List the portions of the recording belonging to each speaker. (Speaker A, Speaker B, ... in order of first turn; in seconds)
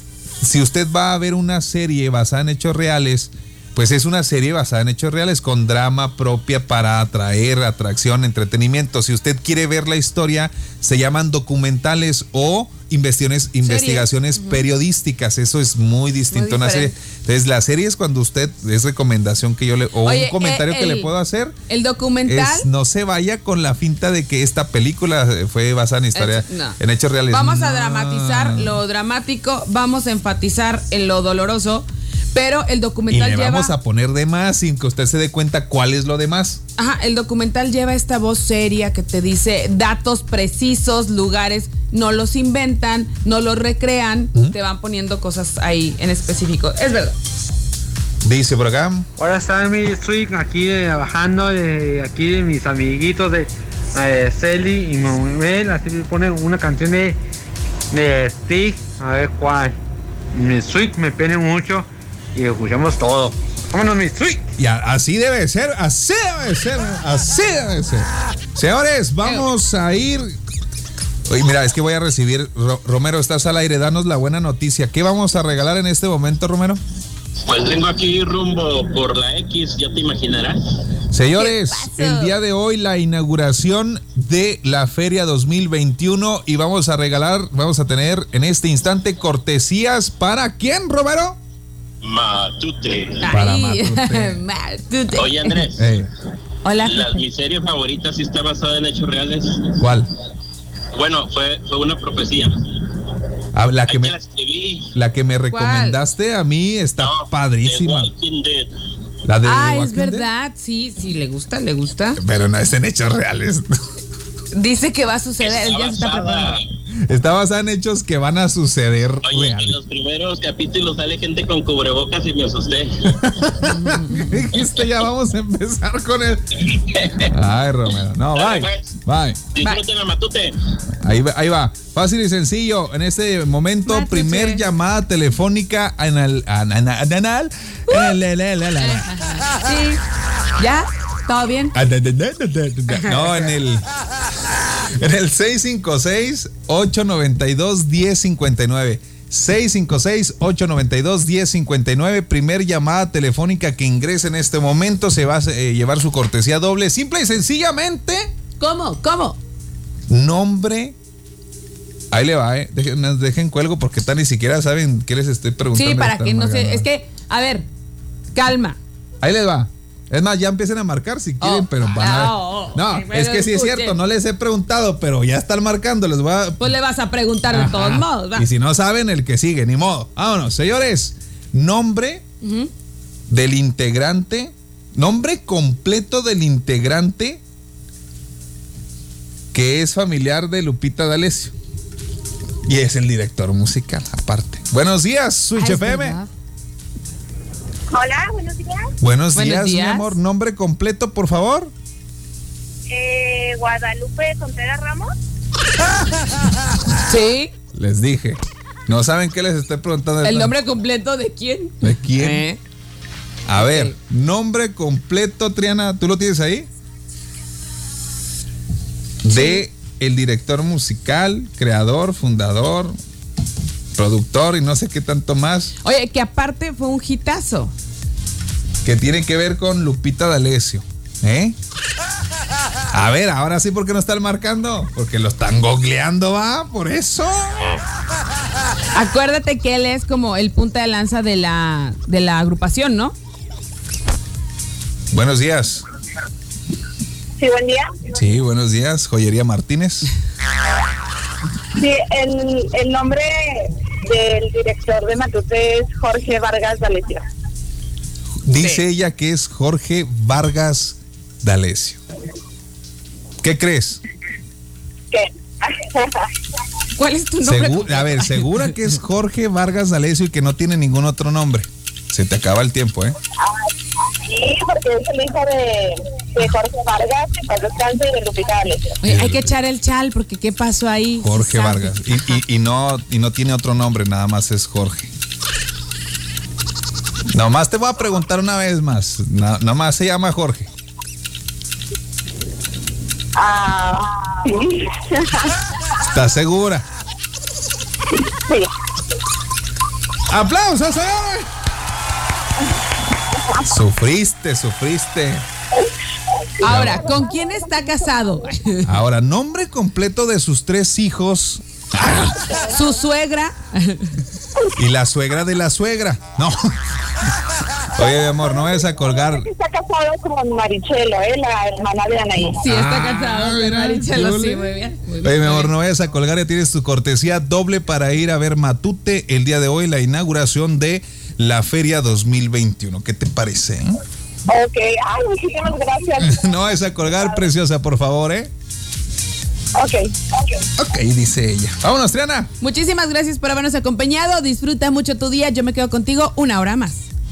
Speaker A: 0.4-21.6, 22.2-28.8, 33.1-36.6, 48.2-49.1, 64.6-70.4, 71.3-76.8, 81.1-91.4, 93.3-94.4, 95.8-96.1, 99.8-100.1, 103.5-104.2, 104.9-108.1, 109.2-110.3, 112.2-113.7, 116.9-119.8, 123.2-126.7, 127.2-129.4, 131.0-139.1, 141.8-143.8, 144.7-158.3, 160.1-161.0, 162.1-166.9, 169.2-176.7, 177.5-182.2, 183.3-187.4, 189.5-191.6, 192.7-196.2, 199.0-201.7, 207.7-210.6, 211.8-212.4, 213.5-216.7, 219.2-223.0, 223.9-225.7, 228.8-231.6, 232.9-237.8, 245.1-245.8, 248.1-250.1, 258.4-262.0, 263.4-264.0, 267.4-273.2, 279.0-279.6, 281.2-285.1, 287.3-290.7, 296.1-296.9, 300.3-301.5, 303.6-305.5, 306.6-307.3, 308.8-312.4, 314.8-316.8, 317.9-319.5, 322.6-334.0, 336.2-338.5, 340.8-342.5
Speaker B: 13.6-14.6, 16.3-17.0, 20.0-21.1, 21.7-22.7, 26.1-26.8, 27.3-33.7, 36.8-47.2, 81.3-82.4, 93.2-95.6, 96.6-97.2, 105.5-106.0, 109.5-112.2, 114.5-116.6, 123.6-124.3, 133.8-134.7, 137.9-138.2, 138.8-140.0, 140.6-141.8, 142.9-143.5, 158.6-159.4, 165.8-167.7, 168.3-168.8, 171.4-174.0, 176.6-178.5, 182.4-182.7, 195.6-196.3, 199.3-200.2, 207.1-207.5, 210.2-212.6, 213.6-214.0, 219.3-219.7, 225.8-227.7, 238.9-243.2, 267.0-268.6, 279.0-282.4, 306.6-308.9, 312.6-314.1, 322.6-325.7, 342.6-347.1
Speaker C: 49.2-57.2, 57.9-59.8, 60.3-64.5
Speaker D: 77.5-80.8, 92.0-93.2, 95.2-96.0, 96.8-99.9, 100.9-102.9, 103.9-105.0, 107.0-108.7, 115.4-116.7, 119.2-123.6, 126.6-127.3, 128.3-128.9, 129.5-130.5
Speaker E: 197.9-198.8, 202.9-205.1, 247.4-248.1, 251.8-257.2, 265.1-266.2, 274.2-279.0, 293.4-295.3, 298.3-298.7, 306.6-307.6, 318.0-322.6, 334.5-337.4, 339.8-340.6